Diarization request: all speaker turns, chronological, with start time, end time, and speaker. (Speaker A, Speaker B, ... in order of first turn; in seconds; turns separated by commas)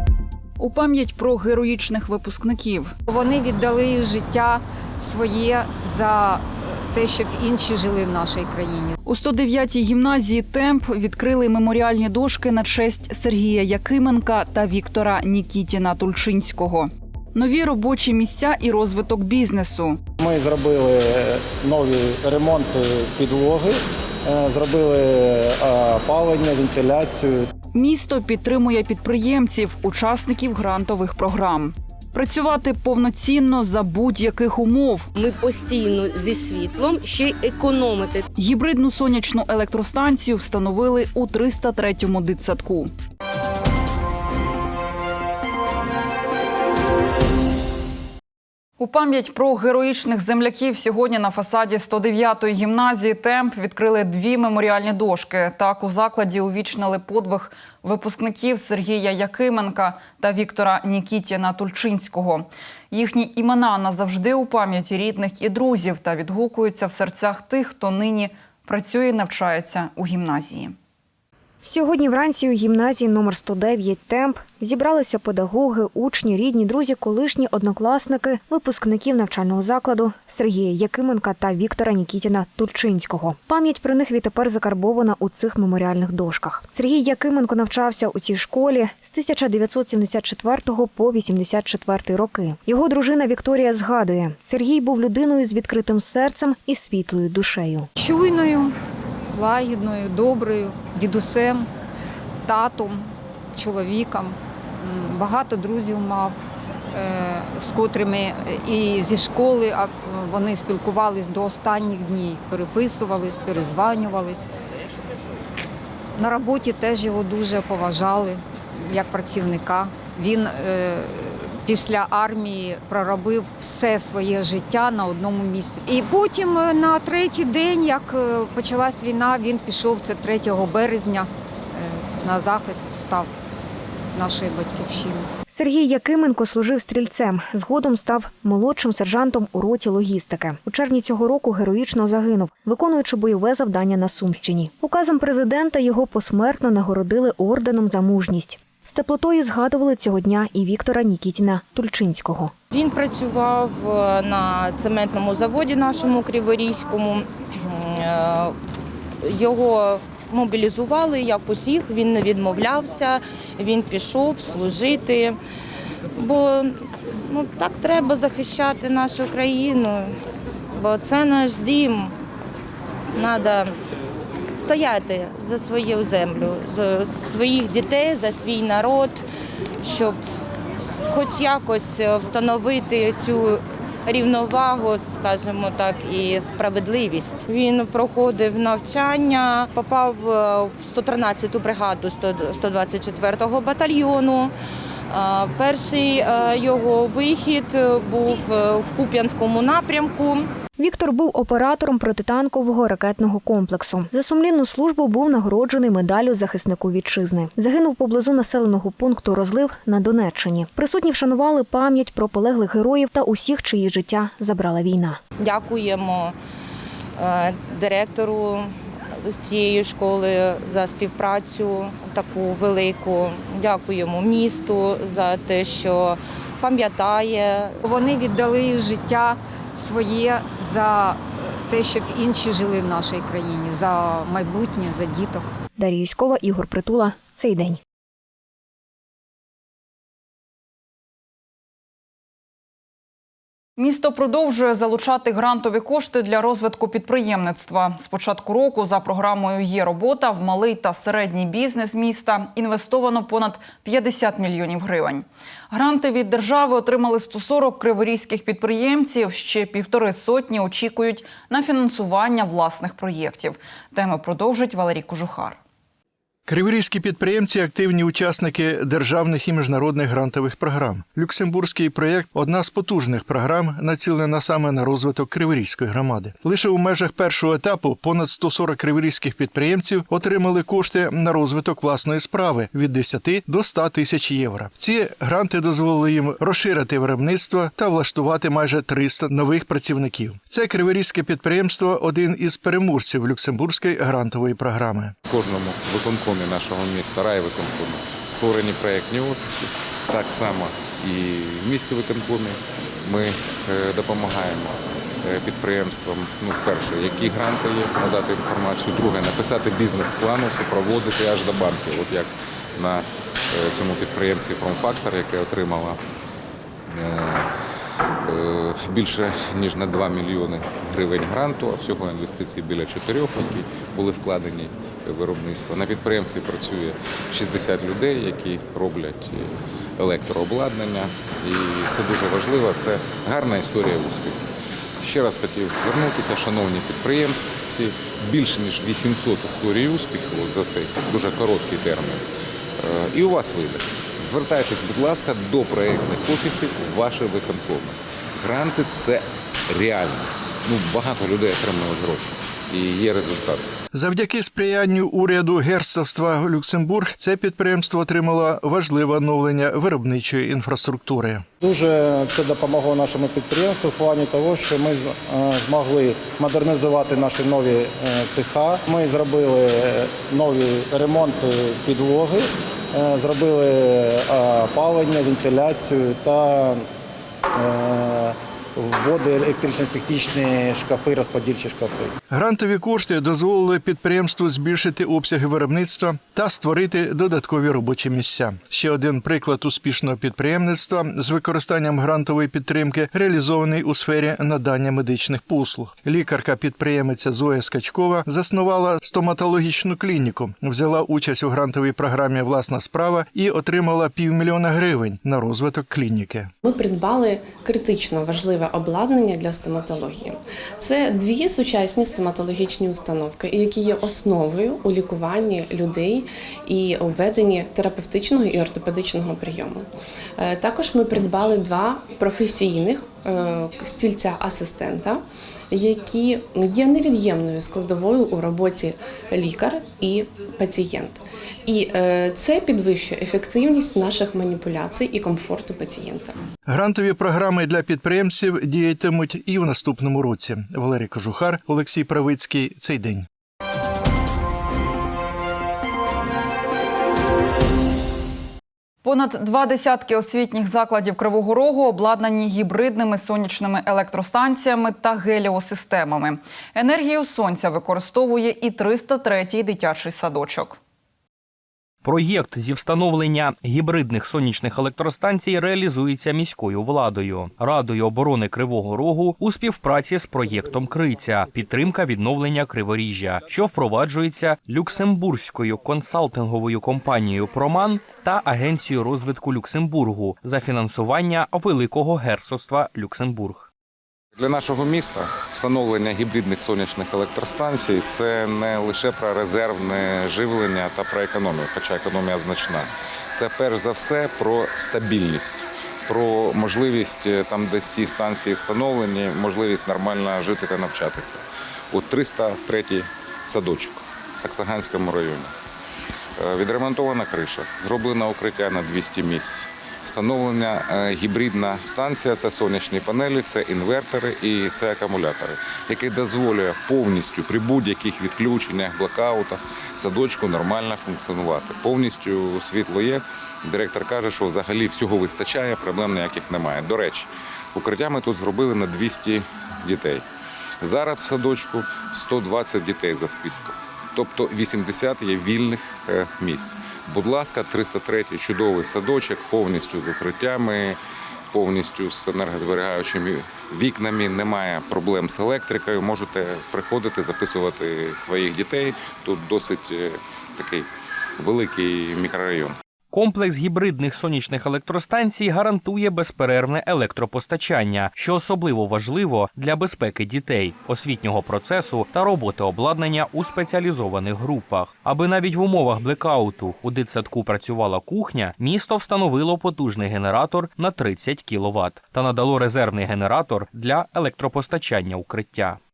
Speaker A: 0.6-2.9, Speaker B: 3.1-8.9, Speaker A: 9.0-20.0, Speaker C: 20.2-27.5, Speaker A: 27.7-35.1, Speaker D: 35.1-38.2, Speaker A: 38.4-42.9, Speaker A: 48.8-70.7, Speaker E: 71.6-97.9, Speaker B: 98.0-98.7, Speaker B: 99.3-101.7, Speaker B: 102.4-106.3, Speaker B: 106.9-114.5, Speaker B: 116.2-133.3, Speaker B: 134.1-135.3, Speaker E: 135.5-152.5, Speaker F: 152.7-158.5, Speaker F: 159.2-165.4, Speaker F: 166.1-170.1, Speaker F: 170.7-172.1, Speaker F: 173.1-173.7, Speaker F: 174.6-179.2, Speaker F: 179.8-180.2, Speaker F: 181.1-194.5, Speaker F: 195.1-200.5, Speaker E: 200.8-215.2, Speaker F: 215.4-216.3, Speaker F: 217.2-227.8, Speaker B: 227.8-235.5, Speaker E: 235.8-237.8, Speaker A: 243.8-265.6, Speaker G: 266.5-295.1, Speaker H: 295.3-316.0, Speaker H: 316.9-317.5, Speaker H: 318.2-334.4, Speaker H: 335.0-342.2, Speaker H: 342.8-353.7, Speaker G: 353.9-361.4, Speaker C: 361.6-376.9, Speaker C: 377.5-382.1, Speaker G: 382.3-406.5, Speaker I: 406.6-436.4, Speaker G: 436.7-443.3, Speaker A: 449.0-460.8, Speaker J: 462.0-483.7, Speaker H: 484.4-501.4, Speaker H: 501.9-505.5, Speaker H: 506.4-530.2, Speaker H: 530.8-541.0, Speaker H: 541.5-550.9, Speaker H: 551.4-552.7, Speaker J: 553.1-575.8